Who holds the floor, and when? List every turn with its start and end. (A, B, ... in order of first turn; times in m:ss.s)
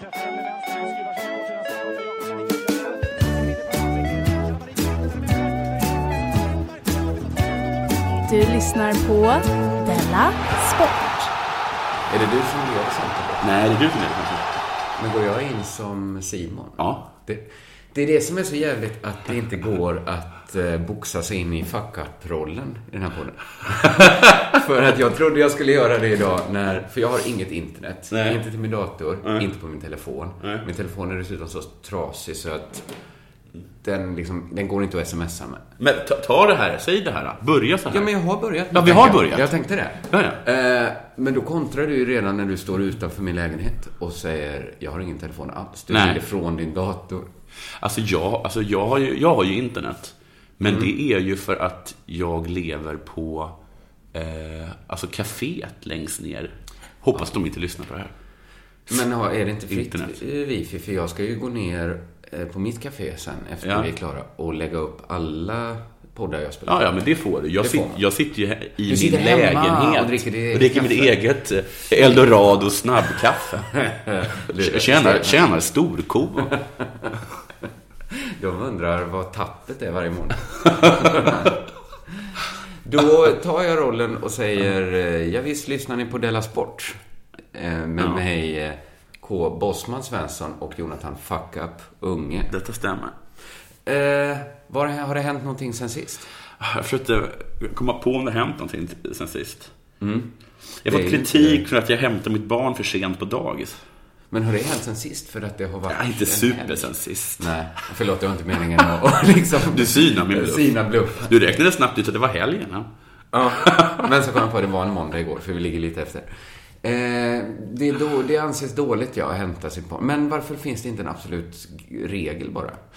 0:08.2-0:11.3 A
0:12.1-0:13.4 B
0:13.4-0:14.6 C
0:15.0-0:32.9 B
0:28.1-0:28.4 C
0:33.8-0:35.6 B
0:35.8-0:38.1 C
0:37.9-0:47.3 B
0:38.7-0:39.5 C
0:40.1-0:40.4 C
0:45.9-0:46.2 C
0:47.8-0:53.5 C
0:50.6-0:50.9 B
0:54.1-0:58.1 C
0:58.9-1:06.9 B
0:59.7-1:00.1 C
1:03.6-1:03.9 C
1:06.6-1:13.7 C
1:07.6-1:08.0 B
1:08.8-1:11.2 B
1:13.7-1:15.5 B
1:14.5-1:16.5 C
1:16.4-1:17.1 B
1:18.1-1:21.6 B
1:22.2-1:27.0 B
1:27.5-1:32.5 B
1:32.5-1:33.1 C
1:33.8-1:36.3 B
1:36.6-1:39.7 C
1:40.0-1:40.3 B
1:40.8-1:43.8 C
1:40.8-1:41.6 B
1:44.3-1:51.5 B
1:45.9-1:47.5 C
1:49.6-1:52.9 C
1:53.3-1:56.3 B
1:53.6-1:54.0 C
1:56.8-2:02.8 B